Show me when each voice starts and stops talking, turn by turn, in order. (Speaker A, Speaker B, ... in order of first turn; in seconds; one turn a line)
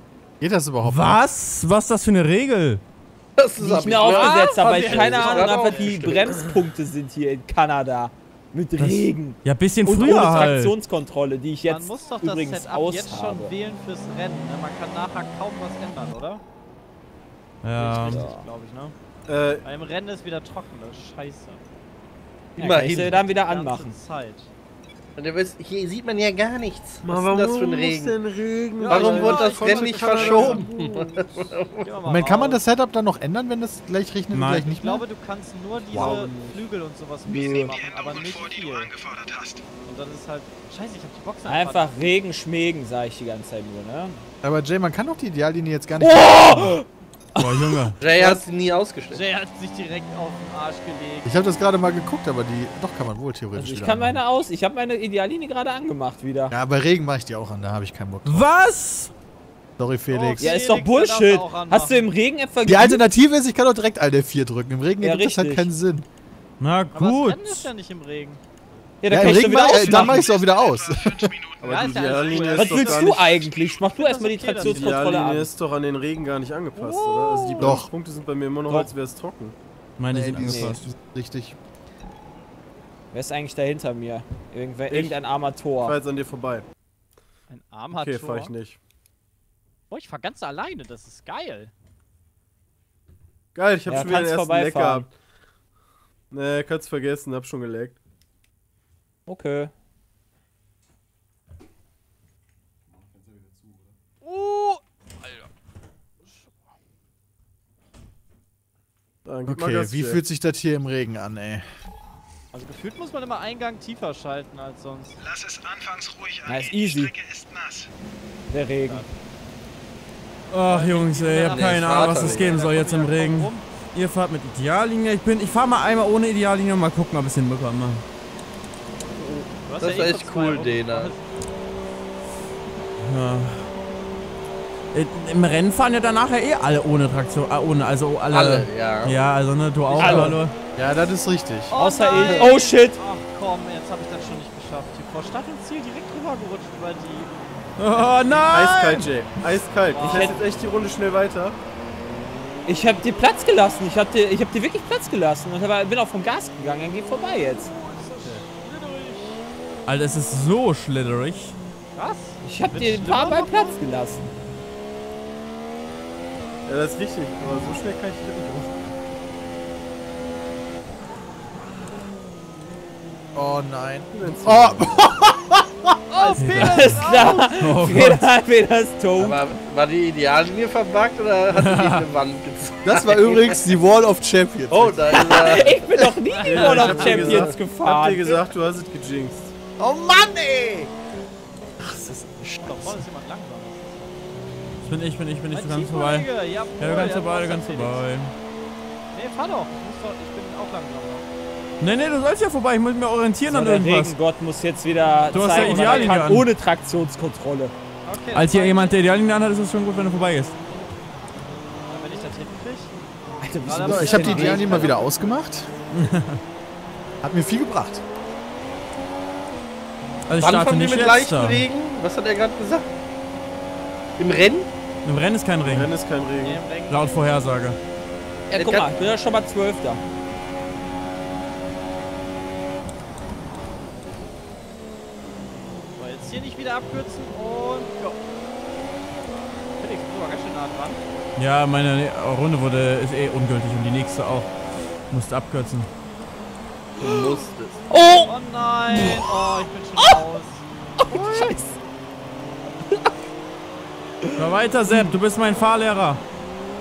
Speaker A: 0.4-1.2
Speaker B: 0.8-2.8
Speaker C: 3.4-6.5
Speaker D: 3.6-13.5
Speaker E: 3.7-5.9
Speaker B: 8.8-10.7
Speaker E: 11.7-16.4
Speaker B: 17.6-18.2
Speaker E: 17.8-18.9
Speaker D: 18.0-18.5
Speaker F: 19.3-19.6
Speaker E: 19.6-21.6
Speaker D: 22.6-24.0
Speaker C: 22.6-23.2
Speaker E: 23.1-24.5
Speaker C: 25.1-28.2
Speaker F: 27.0-31.5
Speaker E: 28.8-30.7
Speaker C: 28.8-31.9
Speaker E: 31.8-32.6
Speaker A: 32.0-35.0
Speaker B: 34.3-34.7
Speaker E: 34.6-38.9
Speaker F: 35.9-36.6
Speaker D: 37.2-37.7
Speaker G: 37.6-39.7
Speaker E: 39.8-42.0
Speaker D: 41.5-44.2
Speaker A: 44.4-46.8
Speaker D: 46.0-47.8
Speaker B: 47.4-48.0
Speaker C: 48.0-49.2
Speaker E: 48.1-48.4
Speaker E: 49.1-51.3
Speaker A: 51.2-54.2
Speaker D: 53.5-56.5
Speaker A: 56.5-58.5
Speaker B: 58.2-59.1
Speaker A: 59.8-60.5
Speaker E: 60.1-62.1
Speaker D: 60.4-63.0
Speaker A: 62.6-66.0
Speaker D: 65.0-65.7
Speaker B: 66.6-67.7
Speaker E: 66.9-68.4
Speaker D: 69.0-70.4
Speaker A: 69.1-71.3
Speaker G: 69.5-72.5
Speaker F: 71.6-73.4
Speaker E: 71.6-73.2
Speaker D: 72.5-75.5
Speaker G: 73.2-73.9
Speaker E: 73.8-75.0
Speaker F: 74.6-79.5
Speaker E: 76.7-77.8
Speaker A: 77.6-77.9
Speaker B: 80.0-80.9
Speaker A: 80.1-81.6
Speaker D: 80.3-80.8
Speaker D: 83.1-86.0
Speaker F: 84.9-85.2
Speaker F: 85.8-86.6
Speaker E: 87.5-88.5
Speaker F: 87.9-88.8
Speaker E: 89.9-91.7
Speaker F: 93.5-95.1
Speaker D: 93.9-95.1
Speaker F: 96.3-98.0
Speaker D: 99.3-99.7
Speaker E: 104.2-105.5
Speaker E: 106.2-106.6
Speaker F: 109.2-110.2
Speaker A: 109.5-111.7
Speaker E: 112.5-115.2
Speaker G: 115.2-117.9
Speaker D: 116.5-117.1
Speaker D: 118.5-119.1
Speaker B: 120.5-128.0
Speaker E: 120.6-123.6
Speaker C: 121.5-122.5
Speaker E: 129.6-131.2
Speaker C: 129.8-131.1
Speaker B: 133.0-133.7
Speaker B: 134.9-140.5
Speaker C: 138.3-139.2
Speaker D: 140.0-140.4
Speaker A: 140.8-141.7
Speaker E: 141.7-147.3
Speaker D: 141.7-143.0
Speaker C: 142.2-142.5
Speaker B: 147.8-149.1
Speaker E: 148.0-148.6
Speaker F: 148.5-151.6
Speaker E: 149.7-150.5
Speaker D: 150.0-150.4
Speaker D: 152.7-157.7
Speaker E: 157.5-159.4
Speaker B: 159.9-161.6
Speaker E: 161.9-163.8
Speaker D: 162.4-164.3
Speaker F: 166.7-168.8
Speaker A: 173.3-175.9
Speaker F: 174.1-175.1
Speaker E: 176.1-177.8
Speaker D: 176.2-179.4
Speaker B: 176.4-178.3
Speaker C: 179.2-183.7
Speaker B: 181.5-182.1
Speaker A: 182.8-186.1
Speaker C: 184.7-185.9
Speaker D: 185.1-188.4
Speaker E: 186.3-187.4
Speaker F: 186.4-189.5
Speaker A: 189.8-190.9
Speaker A: 191.8-193.0
Speaker E: 192.6-194.1
Speaker B: 194.8-198.3
Speaker E: 195.5-198.1
Speaker E: 199.1-201.2
Speaker B: 201.8-204.1
Speaker D: 203.4-207.7
Speaker E: 205.2-206.3
Speaker B: 205.3-206.5
Speaker E: 208.0-209.0
Speaker B: 208.3-210.5
Speaker E: 211.9-213.0
Speaker D: 213.4-215.0
Speaker E: 213.6-215.3
Speaker A: 213.8-215.7
Speaker B: 215.9-216.4
Speaker A: 217.2-218.0
Speaker B: 220.3-221.7
Speaker C: 220.4-222.9
Speaker C: 224.2-224.7
Speaker B: 225.0-225.9
Speaker F: 225.6-226.6
Speaker E: 226.4-227.2
Speaker B: 226.9-227.8
Speaker D: 228.5-230.0
Speaker C: 228.5-228.9
Speaker E: 235.9-238.2
Speaker E: 239.8-241.0
Speaker B: 241.4-244.5
Speaker B: 245.1-245.9
Speaker C: 247.0-247.8
Speaker D: 247.9-248.3
Speaker E: 248.2-251.6
Speaker D: 248.9-249.3
Speaker D: 250.0-250.2
Speaker D: 251.0-251.7
Speaker D: 254.2-255.1
Speaker B: 254.3-256.2